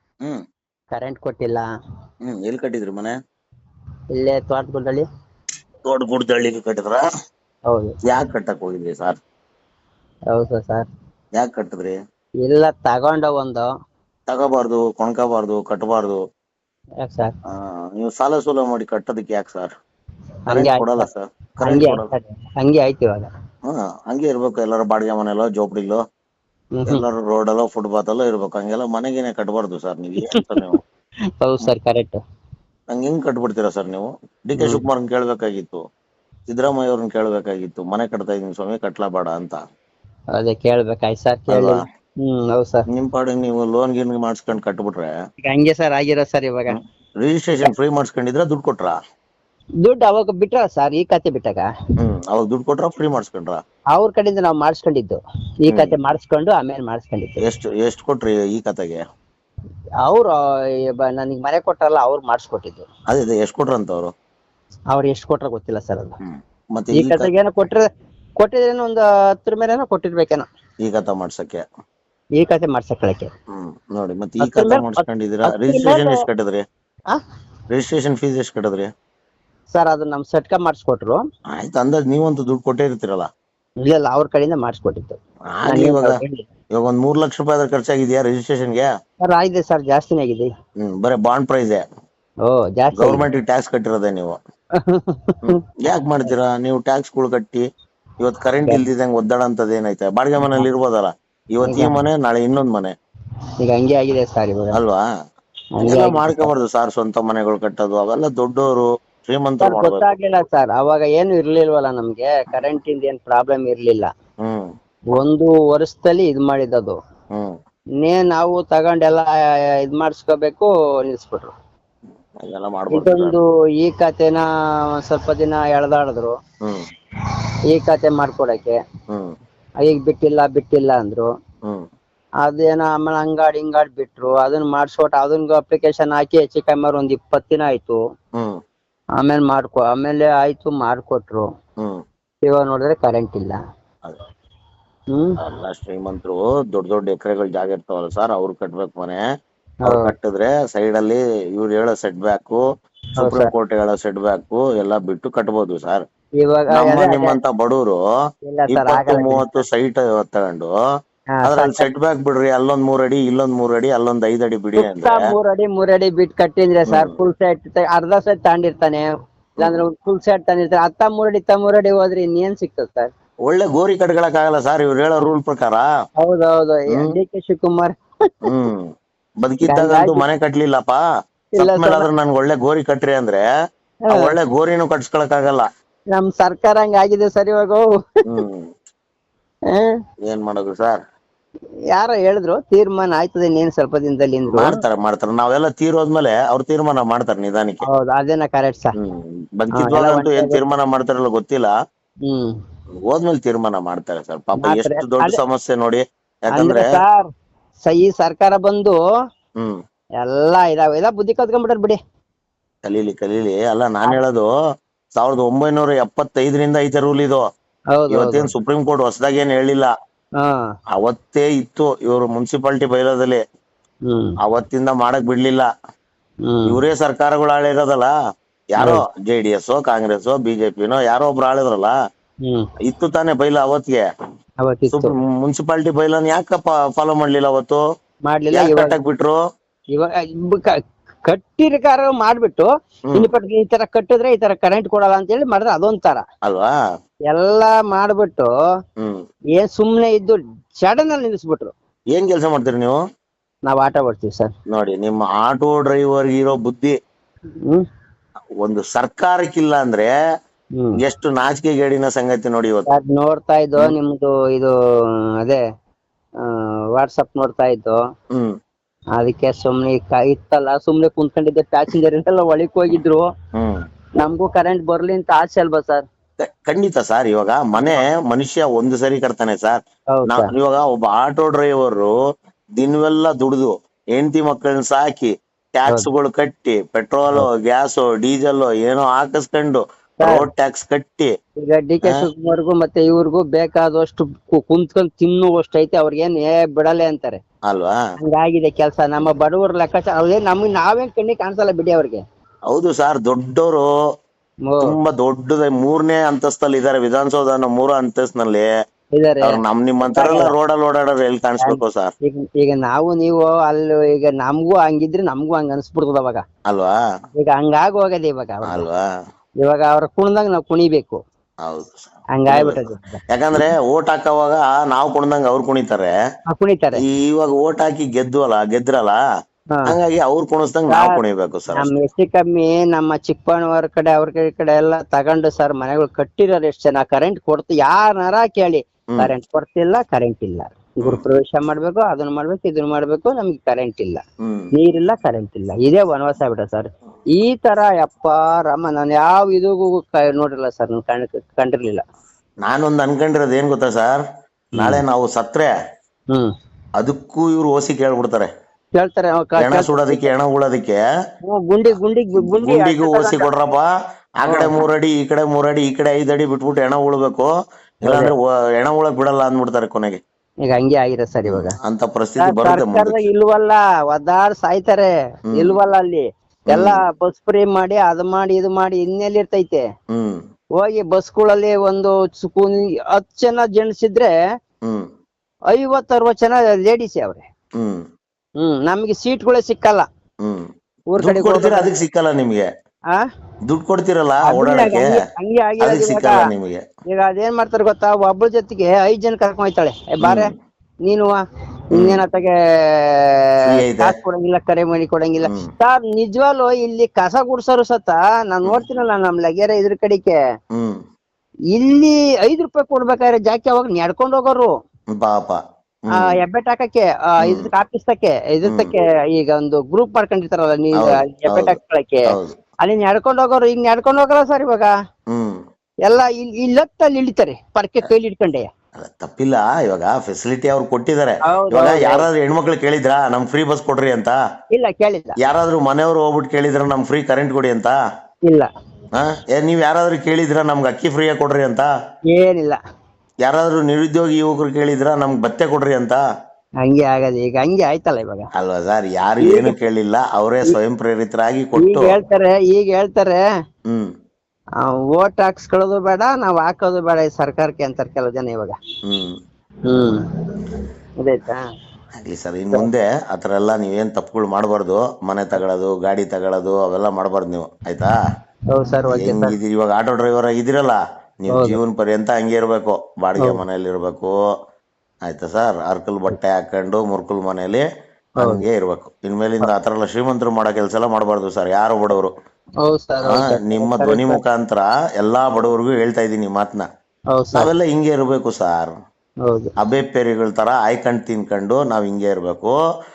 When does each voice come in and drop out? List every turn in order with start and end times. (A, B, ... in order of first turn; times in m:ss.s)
0:00.9-0:01.6 A
0:02.2-0:03.1 B
0:04.1-0:05.0 A
0:05.8-0:07.0 B
0:07.7-0:07.9 A
0:08.1-0:09.2 B
0:10.3-0:10.9 A
0:11.4-0:12.0 B
0:12.4-0:13.7 A
0:14.3-0:16.2 B
0:17.0-0:17.3 A
0:17.5-0:19.7 B
0:20.5-0:21.0 A
0:20.5-0:22.1 B
0:21.6-0:23.3 A
0:23.7-0:26.0 B
0:26.9-0:30.8 B
0:31.4-0:32.2 A
0:32.9-0:35.8 B
0:34.6-0:34.8 A
0:36.5-0:39.6 B
0:40.3-0:42.8 A
0:41.5-0:41.8 B
0:42.9-0:45.1 B
0:45.4-0:46.8 A
0:46.7-0:49.0 B
0:49.8-0:51.7 A
0:52.0-0:53.6 B
0:53.9-0:57.4 A
0:57.4-0:59.0 B
1:00.0-1:00.4 A
1:00.9-1:02.8 A
1:03.1-1:04.1 B
1:04.9-1:06.2 A
1:06.2-1:07.3 B
1:06.9-1:07.8 A
1:08.4-1:10.4 A
1:10.8-1:11.6 B
1:12.4-1:13.3 A
1:13.5-1:16.6 B
1:14.4-1:16.2 A
1:17.7-1:18.9 B
1:19.7-1:21.2 A
1:21.5-1:23.3 B
1:23.8-1:26.5 A
1:25.5-1:26.2 B
1:26.7-1:28.9 B
1:29.2-1:30.5 A
1:30.8-1:31.8 B
1:32.4-1:33.2 A
1:33.0-1:34.4 B
1:34.8-1:35.4 A
1:35.4-1:37.6 B
1:38.2-1:42.9 B
1:40.4-1:40.7 A
1:41.6-1:42.0 A
1:43.6-1:44.8 A
1:44.7-1:45.0 B
1:45.8-1:46.5 A
1:45.8-1:50.1 B
1:49.6-1:54.1 A
1:55.2-1:57.0 A
1:58.0-1:59.3 A
1:59.8-2:01.5 A
2:02.4-2:03.4 B
2:02.9-2:04.4 A
2:04.9-2:06.3 A
2:07.7-2:08.8 A
2:09.8-2:11.3 A
2:12.4-2:18.0 A
2:19.2-2:21.5 A
2:22.4-2:23.6 A
2:25.1-2:25.4 A
2:25.4-2:29.2 B
2:29.8-2:30.1 A
2:29.8-2:32.6 B
2:33.2-2:33.5 A
2:33.2-2:36.0 B
2:36.4-2:37.4 A
2:36.7-2:38.0 B
2:38.5-2:39.5 A
2:38.7-2:40.7 B
2:41.3-2:41.9 A
2:41.4-2:45.3 B
2:44.8-2:49.1 A
2:49.6-2:49.8 B
2:49.6-2:53.1 A
2:53.5-2:55.8 B
2:56.2-2:57.9 A
2:58.4-2:58.9 B
2:59.4-3:01.0 B
2:59.7-3:00.2 A
3:01.6-3:02.1 A
3:01.6-3:03.4 B
3:04.1-3:04.3 A
3:04.1-3:05.6 B
3:06.1-3:07.9 A
3:08.3-3:08.7 B
3:10.3-3:11.0 B
3:11.9-3:14.8 A
3:14.6-3:17.8 B
3:17.9-3:18.9 A
3:19.0-3:21.7 B
3:19.7-3:20.6 A
3:22.3-3:22.5 A
3:23.1-3:26.9 B
3:24.6-3:25.4 A
3:26.6-3:27.3 A
3:27.8-3:29.0 A
3:30.2-3:32.0 A
3:32.8-3:34.5 B
3:35.1-3:37.4 B
3:37.9-3:38.5 A
3:38.1-3:39.9 B
3:41.0-3:43.4 B
3:44.1-3:44.4 A
3:44.4-3:45.7 B
3:46.4-3:46.8 A
3:46.7-3:48.1 B
3:48.7-3:51.9 B
3:48.8-3:49.0 A
3:52.8-3:54.0 B
3:54.6-3:55.1 A
3:54.9-3:57.8 B
3:58.3-3:58.9 A
3:58.5-3:59.4 B
3:59.9-4:00.7 A
4:01.2-4:06.2 A
4:06.4-4:06.7 B
4:07.3-4:08.5 A
4:09.6-4:11.7 A
4:12.1-4:13.0 B
4:13.7-4:14.5 A
4:14.7-4:16.9 B
4:18.6-4:20.1 B
4:21.0-4:22.9 B
4:22.9-4:24.7 A
4:26.4-4:28.0 A
4:29.2-4:33.3 A
4:33.5-4:33.8 B
4:34.2-4:36.0 A
4:36.4-4:42.1 B
4:37.7-4:38.0 A
4:40.1-4:40.5 A
4:42.8-4:51.3 B
4:51.6-4:57.4 A
4:57.7-4:58.0 B
4:58.2-5:02.2 A
5:02.7-5:03.8 B
5:04.7-5:04.9 A
5:04.8-5:08.7 B
5:09.1-5:10.5 A
5:09.4-5:12.1 B
5:11.6-5:16.4 A
5:16.7-5:17.0 B
5:17.4-5:18.8 A
5:18.7-5:19.0 B
5:19.6-5:21.2 A
5:21.6-5:26.1 B
5:22.3-5:23.7 A
5:26.5-5:27.0 A
5:27.0-5:29.2 B
5:29.9-5:31.9 B
5:31.7-5:44.2 A
5:44.4-5:44.7 B
5:44.7-5:52.0 A
5:52.6-5:54.2 B
5:54.8-5:55.0 A
5:54.8-5:55.7 B
5:57.0-5:58.5 B
5:59.0-6:00.3 A
5:59.6-6:01.0 B
6:01.4-6:03.5 A
6:02.4-6:03.9 B
6:04.4-6:07.5 B
6:04.4-6:04.8 A
6:08.0-6:10.2 B
6:08.0-6:08.3 A
6:10.6-6:11.8 A
6:11.5-6:13.2 B
6:12.4-6:19.8 A
6:16.7-6:17.0 B
6:20.1-6:20.4 B
6:20.8-6:24.3 A
6:25.7-6:27.4 A
6:28.6-6:30.1 A
6:31.1-6:31.9 A
6:31.2-6:32.6 B
6:33.7-6:35.1 B
6:34.5-6:36.3 A
6:35.8-6:36.8 B
6:37.1-6:40.5 A
6:40.2-6:40.5 B
6:41.1-6:41.4 A
6:41.9-6:50.4 A
6:42.0-6:42.2 B
6:43.6-6:44.1 B
6:51.7-6:54.7 A
6:55.1-6:55.6 B
6:56.1-6:56.4 B
6:56.1-7:02.3 A
7:01.0-7:01.8 B
7:02.3-7:02.6 B
7:02.8-7:04.9 A
7:05.3-7:05.6 B
7:06.0-7:08.7 A
7:09.0-7:14.4 B
7:11.5-7:12.3 A
7:14.7-7:15.4 A
7:15.4-7:18.0 B
7:19.1-7:21.9 B
7:22.3-7:22.8 A
7:23.4-7:26.2 B
7:26.8-7:28.5 A
7:28.6-7:32.2 B
7:29.4-7:29.7 A
7:31.8-7:33.4 A
7:34.8-7:38.8 A
7:39.0-7:39.4 B
7:39.9-7:40.2 A
7:41.2-7:41.7 A
7:42.2-7:48.1 B
7:48.7-7:49.5 A
7:49.1-7:54.3 B
7:51.5-7:51.8 A
7:55.3-7:57.8 B
7:58.4-8:02.3 B
8:02.8-8:04.4 A
8:03.3-8:06.9 B
8:07.3-8:07.7 A
8:07.5-8:08.9 B
8:09.4-8:09.7 A
8:09.8-8:12.7 B